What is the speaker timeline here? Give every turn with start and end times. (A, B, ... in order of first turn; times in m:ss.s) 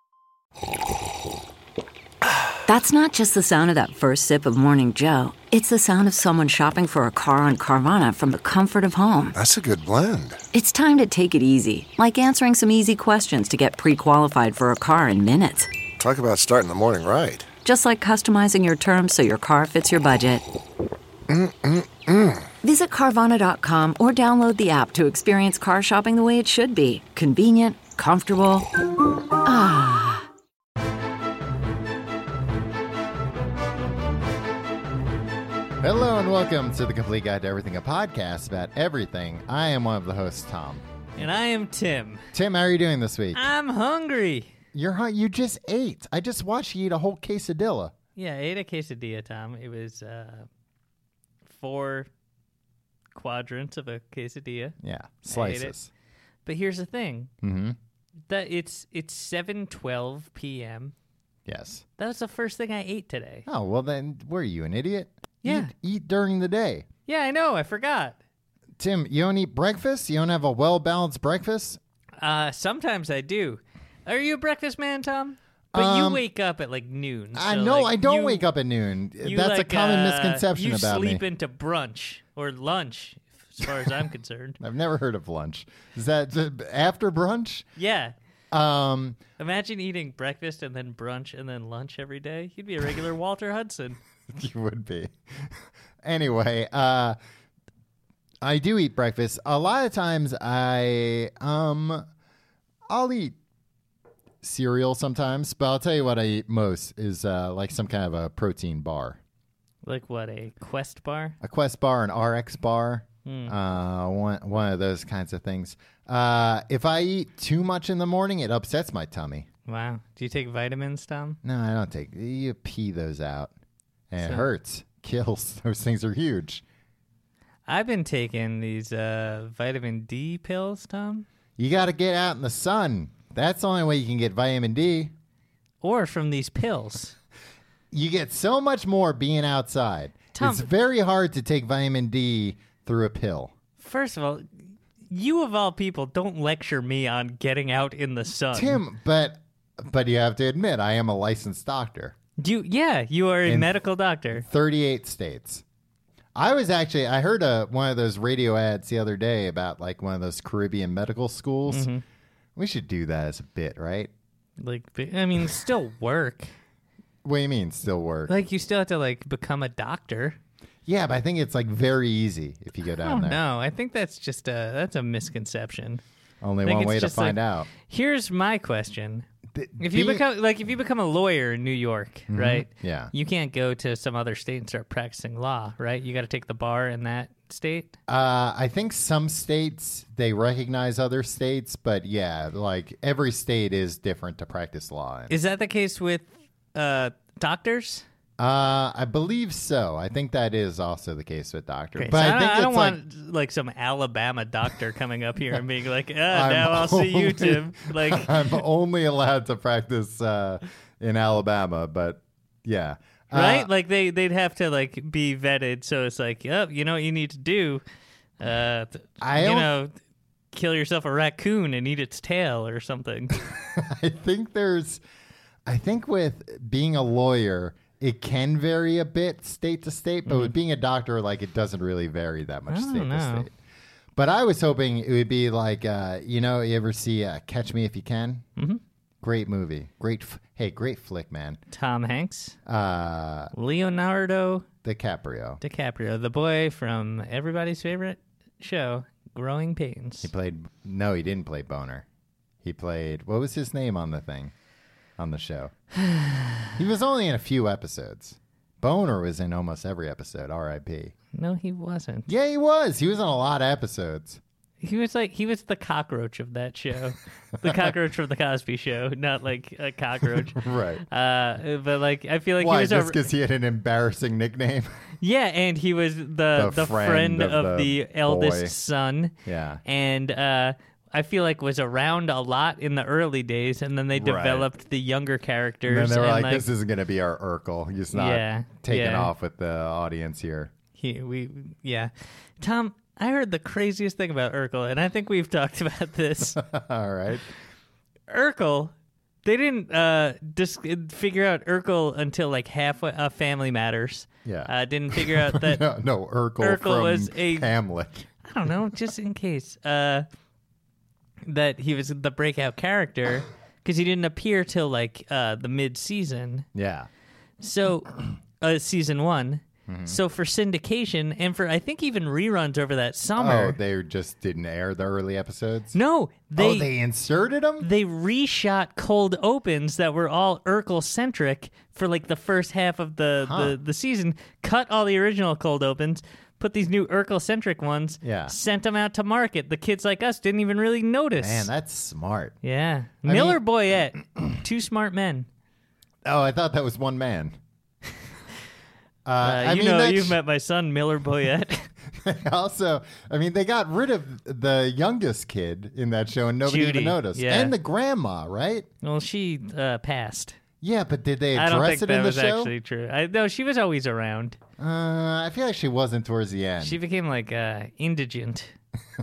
0:02.7-0:09.4 A
0:09.4-0:10.4 B
0:10.5-0:15.7 A
0:16.0-0:17.5 B
0:17.6-0:20.4 A
0:21.3-0:22.5 B
0:22.6-0:28.7 A
0:29.4-0:30.3 A
0:35.8-0:40.8 C
0:41.2-0:42.3 D
0:42.3-0:43.5 C
0:43.3-0:44.5 D
0:44.7-0:47.9 C
0:48.2-0:50.5 D
0:51.5-0:52.1 D
0:53.1-0:54.8 D
0:54.8-0:55.9 C
0:55.3-0:55.7 D
0:56.5-0:57.3 D
0:57.4-0:57.8 C
0:58.3-1:00.9 D
1:01.5-1:01.8 C
1:02.0-1:03.5 D
1:03.5-1:06.9 C
1:05.4-1:05.7 D
1:07.1-1:08.2 D
1:08.8-1:11.8 C
1:12.2-1:18.5 D
1:15.7-1:16.2 C
1:17.3-1:21.2 C
1:19.2-1:24.6 D
1:24.6-1:27.7 C
1:27.8-1:28.2 D
1:28.5-1:29.2 C
1:29.4-1:34.0 D
1:34.3-1:37.2 C
1:38.4-1:42.1 C
1:42.9-1:43.4 C
1:44.4-1:49.2 C
1:49.8-1:51.4 D
1:51.4-1:59.5 C
1:53.3-1:53.5 D
1:59.7-2:01.4 D
2:01.4-2:03.5 C
2:04.1-2:06.6 C
2:04.2-2:04.5 D
2:07.7-2:11.3 D
2:11.6-2:15.1 C
2:15.8-2:17.2 D
2:17.9-2:23.5 C
2:20.4-2:20.7 D
2:23.8-2:24.5 D
2:25.1-2:28.8 D
2:28.5-2:32.2 C
2:32.4-2:34.5 D
2:33.4-2:33.7 C
2:34.3-2:35.6 C
2:36.4-2:41.9 C
2:41.7-2:42.0 D
2:42.6-2:44.1 C
2:44.6-2:46.5 D
2:47.2-2:48.3 C
2:48.3-2:50.4 D
2:50.9-2:53.4 C
2:53.0-2:56.0 D
2:56.4-2:57.7 C
2:56.6-2:59.3 D
2:59.5-3:00.2 C
2:59.8-3:07.9 D
3:02.3-3:03.1 C
3:08.1-3:15.4 C
3:15.3-3:18.0 D
3:18.4-3:23.0 C
3:22.0-3:28.6 D
3:26.3-3:33.7 C
3:33.3-3:37.8 D
3:38.4-3:39.9 D
3:39.2-3:39.7 C
3:40.5-3:43.4 D
3:43.4-3:45.0 C
3:45.7-3:53.5 C
3:50.3-3:50.5 D
3:52.7-3:53.5 D
3:54.2-3:58.4 C
3:59.2-4:01.6 C
4:01.7-4:02.6 D
4:02.7-4:03.5 C
4:03.5-4:04.7 D
4:04.8-4:05.6 C
4:05.6-4:10.3 D
4:10.2-4:12.0 C
4:12.6-4:14.5 C
4:15.2-4:15.7 C
4:16.0-4:16.7 D
4:16.8-4:21.1 C
4:21.3-4:22.3 D
4:22.3-4:24.4 C
4:24.8-4:33.2 D
4:27.6-4:27.9 C
4:30.3-4:31.0 C
4:32.6-4:34.9 C
4:35.2-4:39.3 D
4:36.6-4:38.8 C
4:39.4-4:39.8 C
4:39.8-4:46.7 D
4:44.1-4:44.7 C
4:45.9-4:50.7 C
4:48.1-4:49.3 D
4:51.0-4:56.6 D
4:56.6-4:57.5 C
4:58.3-4:58.9 D
4:59.4-5:05.8 D
5:04.4-5:08.3 C
5:06.6-5:07.7 D
5:08.4-5:10.3 D
5:11.4-5:16.7 D
5:16.8-5:17.1 C
5:17.6-5:23.8 D
5:19.9-5:20.2 C
5:23.4-5:26.0 C
5:25.9-5:26.9 D
5:26.6-5:27.9 C
5:27.8-5:41.7 D
5:33.4-5:33.8 C
5:38.2-5:38.6 C
5:41.4-5:42.6 C
5:42.6-5:45.5 D
5:43.2-5:43.6 C
5:46.2-5:47.6 C
5:49.2-5:50.4 C
5:49.4-5:51.9 D
5:52.1-5:58.9 C
5:56.6-5:57.7 D
5:59.0-6:00.6 D
6:00.8-6:02.7 C
6:01.6-6:04.6 D
6:04.8-6:07.0 C
6:06.8-6:08.8 D